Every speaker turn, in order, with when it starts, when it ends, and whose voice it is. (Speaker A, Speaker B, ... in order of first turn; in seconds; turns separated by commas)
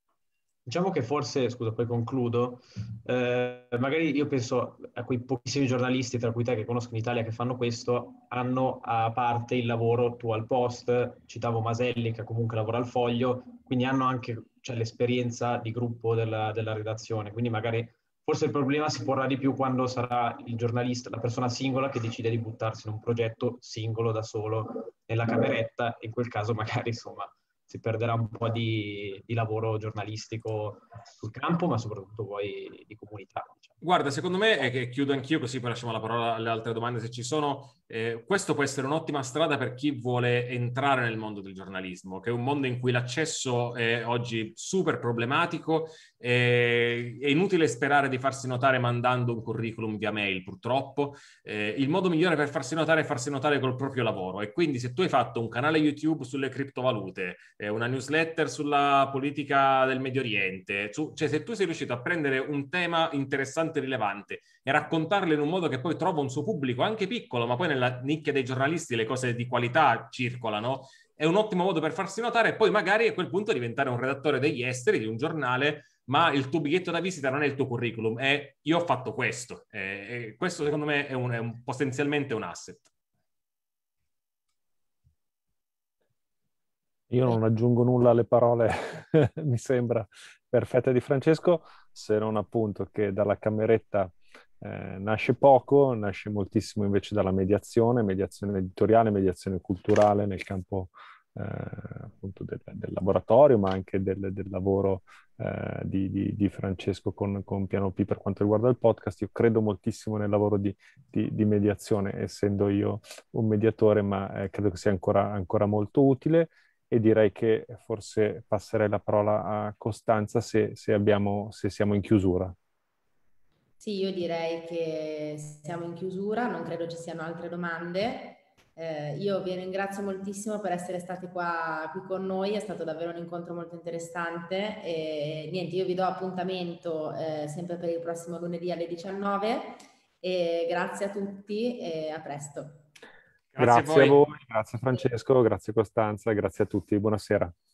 Speaker A: 0.7-33.7, Speaker B: 33.8-82.9, Speaker C: 87.1-122.5, Speaker D: 123.8-142.8, Speaker B: 143.5-144.2, Speaker C: 143.6-147.5